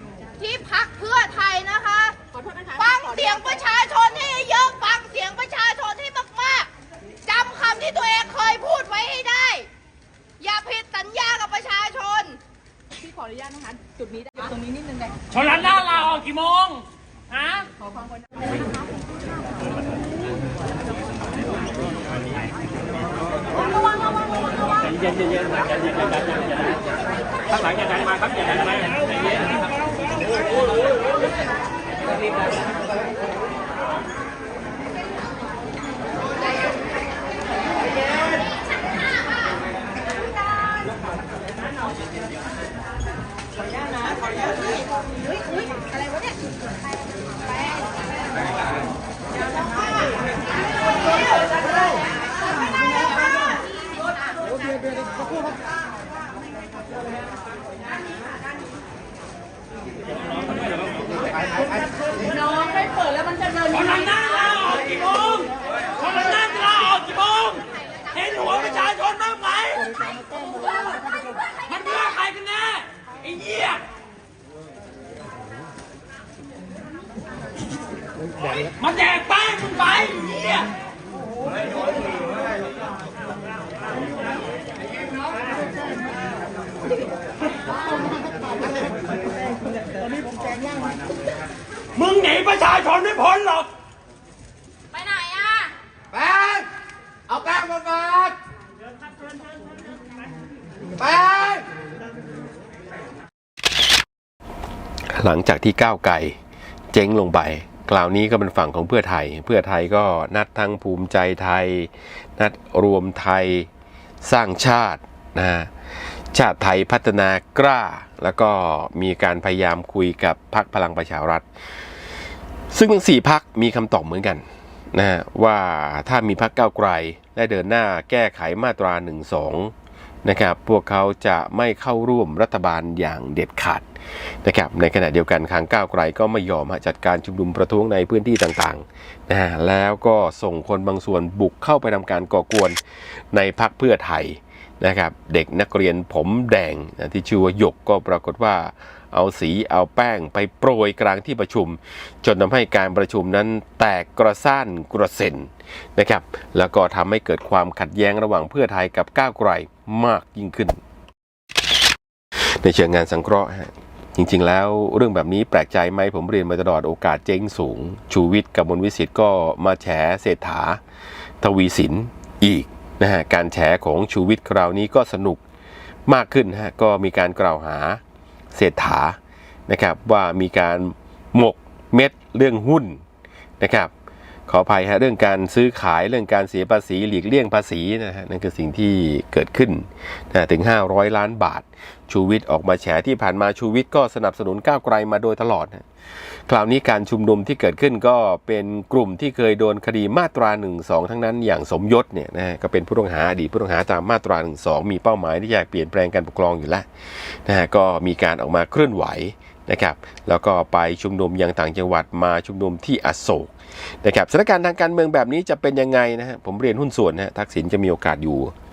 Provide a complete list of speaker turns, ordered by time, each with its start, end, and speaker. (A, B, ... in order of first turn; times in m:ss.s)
0:00.4-0:02.2 A
0:02.3-0:03.7 B
0:02.8-0:06.7 A
0:07.3-0:09.7 A
0:10.4-0:12.4 A
0:12.9-0:15.2 B
0:15.3-0:17.7 C
1:02.4-1:03.6 B
1:03.7-1:09.9 C
1:11.6-1:13.8 C
1:18.8-1:20.7 C
1:32.0-1:33.7 C
1:36.1-1:36.7 D
1:37.3-1:38.4 D
1:41.0-1:41.6 D
1:45.1-1:46.4 E
1:46.9-1:53.7 E
1:54.2-1:55.7 E
1:56.3-2:01.4 E
2:02.7-2:09.7 E
2:10.2-2:13.8 E
2:14.4-2:22.8 E
2:23.3-2:40.8 E
2:42.6-2:50.8 E
2:51.4-2:55.4 E
2:56.1-2:58.0 E
2:58.5-2:59.2 E
2:59.7-3:03.0 E
3:03.6-3:03.9 E
3:04.5-3:15.8 E
3:16.5-3:26.9 E
3:27.4-3:38.5 E